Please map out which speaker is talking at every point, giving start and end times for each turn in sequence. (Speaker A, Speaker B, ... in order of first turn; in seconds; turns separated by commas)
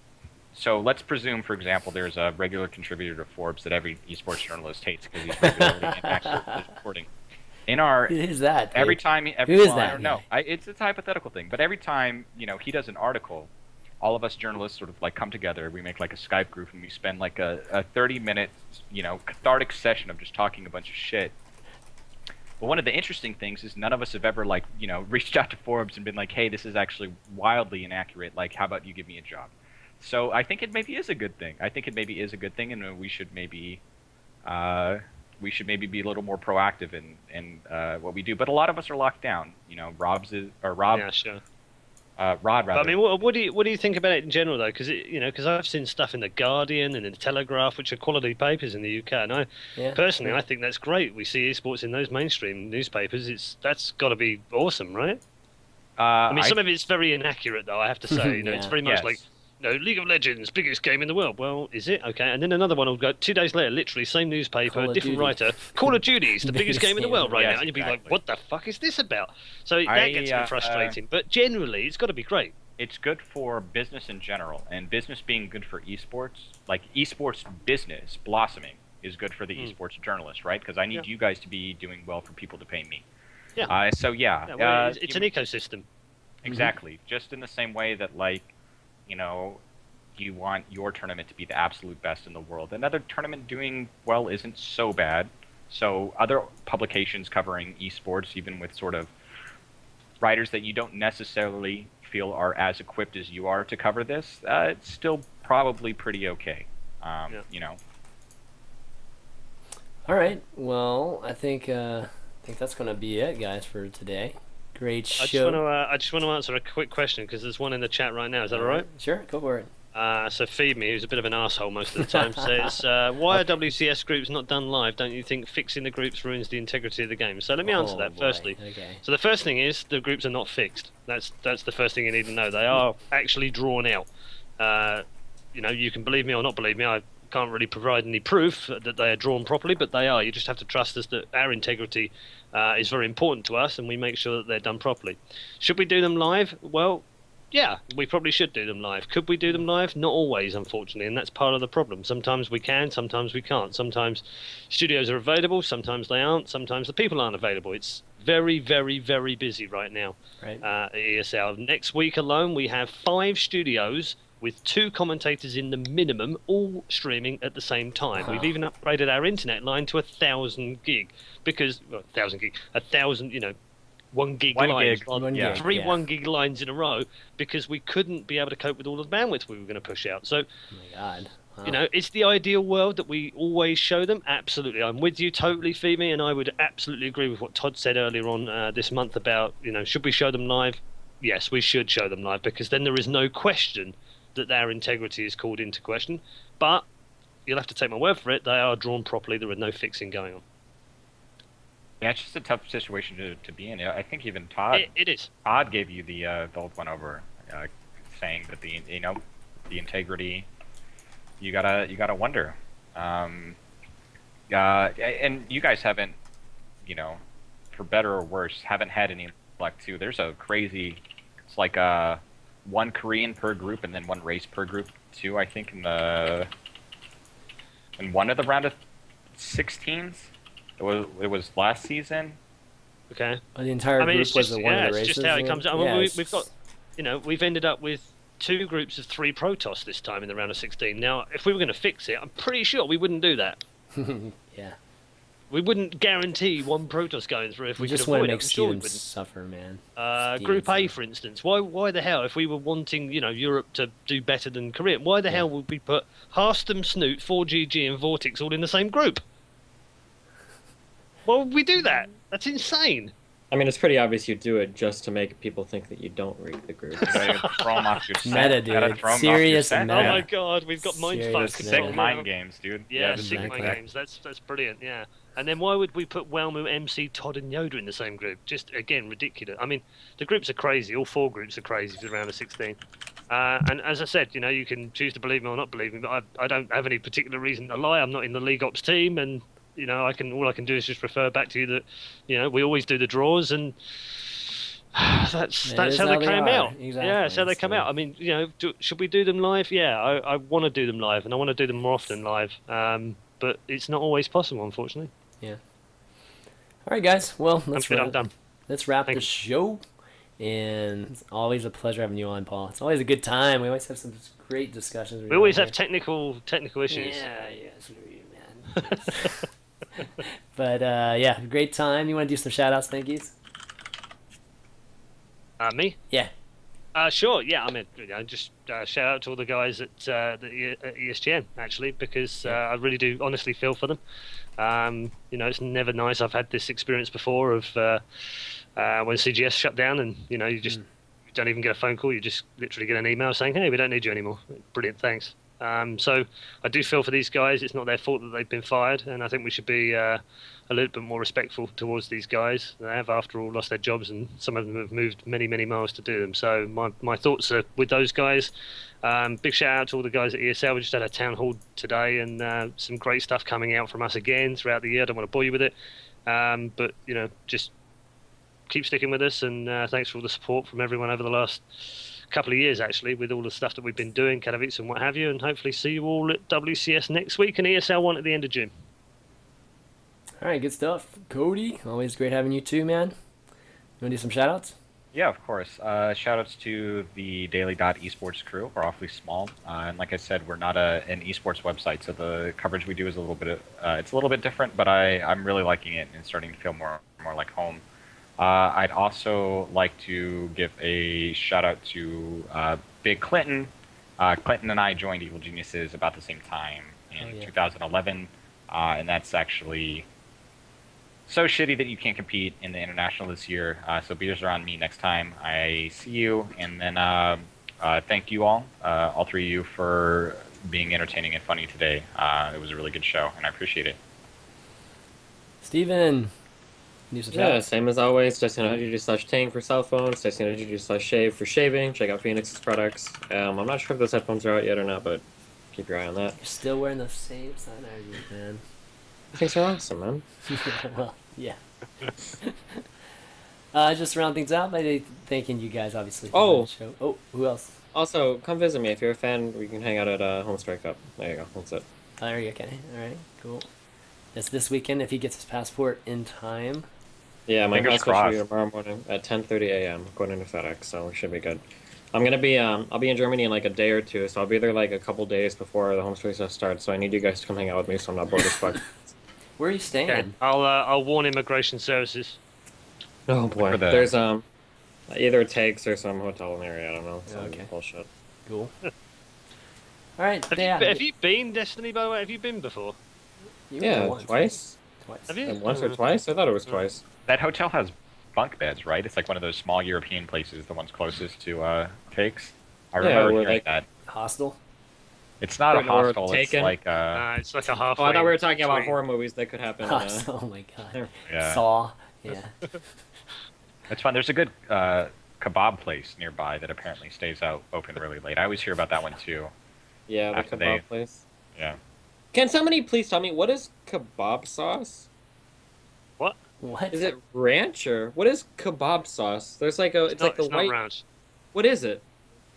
Speaker A: 0.5-7.1, Speaker B: 5.4-6.6, Speaker A: 7.7-8.2, Speaker B: 8.1-10.2, Speaker A: 8.7-13.5, Speaker A: 14.0-21.3, Speaker A: 22.6-33.8, Speaker A: 34.4-41.1, Speaker C: 40.9-41.4, Speaker A: 42.2-43.0, Speaker C: 42.7-55.2, Speaker B: 49.8-50.4, Speaker A: 56.0-56.6, Speaker C: 56.3-72.5, Speaker B: 58.1-58.7, Speaker A: 58.8-59.2, Speaker B: 64.7-67.4, Speaker A: 67.3-68.2, Speaker A: 69.9-71.0, Speaker A: 72.8-83.0, Speaker A: 83.6-85.3, Speaker C: 84.5-85.8, Speaker A: 86.4-88.5, Speaker B: 86.5-86.7, Speaker A: 89.1-89.6, Speaker A: 90.2-99.1, Speaker A: 100.2-107.8, Speaker B: 110.0-115.6, Speaker C: 115.2-118.8, Speaker B: 118.5-119.7, Speaker C: 119.9-134.1, Speaker B: 122.0-122.7, Speaker B: 127.6-129.0, Speaker C: 134.6-173.5, Speaker B: 168.2-168.5, Speaker C: 174.1-180.4, Speaker A: 174.5-175.6, Speaker B: 175.1-176.0, Speaker B: 180.7-181.8, Speaker C: 181.6-196.9, Speaker C: 197.5-200.4, Speaker A: 202.0-204.9, Speaker C: 204.7-205.3, Speaker A: 205.4-209.2, Speaker A: 209.7-210.5, Speaker A: 211.4-213.6, Speaker A: 214.5-216.2, Speaker A: 216.8-217.2, Speaker A: 217.7-226.5, Speaker A: 228.0-228.8, Speaker A: 229.3-232.4, Speaker C: 233.1-233.4, Speaker B: 233.5-236.5, Speaker C: 234.0-243.6, Speaker B: 243.9-244.8, Speaker C: 245.5-249.0, Speaker B: 247.8-249.8, Speaker C: 250.0-259.2, Speaker B: 250.3-250.9, Speaker C: 261.2-263.1, Speaker D: 263.5-267.2, Speaker C: 267.0-268.5, Speaker A: 267.0-270.2, Speaker B: 268.2-270.3, Speaker C: 269.9-272.3, Speaker B: 270.8-272.1, Speaker A: 271.3-273.7, Speaker C: 272.9-282.8, Speaker B: 273.2-273.8, Speaker C: 283.3-305.1, Speaker B: 295.6-297.9, Speaker B: 306.8-308.2, Speaker C: 307.7-308.3, Speaker B: 308.7-309.8, Speaker B: 310.4-315.8, Speaker C: 315.3-317.2, Speaker B: 316.9-323.3, Speaker C: 318.7-319.4, Speaker C: 325.6-326.0, Speaker C: 326.9-334.0, Speaker C: 334.6-340.8, Speaker C: 341.3-358.5, Speaker C: 359.0-365.7, Speaker C: 366.3-367.7, Speaker C: 368.7-378.7, Speaker B: 380.4-383.1, Speaker B: 384.0-384.8, Speaker A: 385.1-397.8, Speaker A: 398.4-410.1, Speaker B: 407.2-407.5, Speaker A: 411.3-424.0, Speaker B: 425.6-426.3, Speaker B: 427.1-427.6, Speaker D: 427.3-436.4, Speaker B: 436.4-438.6, Speaker D: 439.3-440.2, Speaker B: 440.5-441.6, Speaker B: 442.4-442.9, Speaker B: 443.7-447.8, Speaker D: 446.3-446.7, Speaker D: 447.9-451.8, Speaker B: 452.2-453.7, Speaker B: 454.3-456.9, Speaker D: 457.5-461.6, Speaker A: 457.7-458.4, Speaker D: 462.1-469.1, Speaker B: 469.6-470.3, Speaker C: 470.1-472.4, Speaker D: 473.3-474.4, Speaker A: 473.6-474.1, Speaker D: 475.1-478.1, Speaker B: 477.3-477.7, Speaker B: 478.4-478.7, Speaker B: 480.2-481.0, Speaker C: 480.5-483.0, Speaker B: 483.7-485.4, Speaker D: 483.8-484.8, Speaker C: 485.3-486.0, Speaker D: 485.4-487.0, Speaker A: 487.2-493.8, Speaker D: 493.0-493.6, Speaker B: 494.1-494.6, Speaker A: 495.4-497.2, Speaker D: 495.7-496.8, Speaker C: 497.1-498.9, Speaker D: 498.0-500.3, Speaker B: 499.8-503.0, Speaker A: 501.3-501.6, Speaker A: 503.9-509.5, Speaker D: 510.1-511.2, Speaker A: 510.3-510.8, Speaker D: 512.3-515.1, Speaker B: 516.6-517.1, Speaker D: 516.9-520.7, Speaker C: 520.1-521.0, Speaker D: 521.5-522.0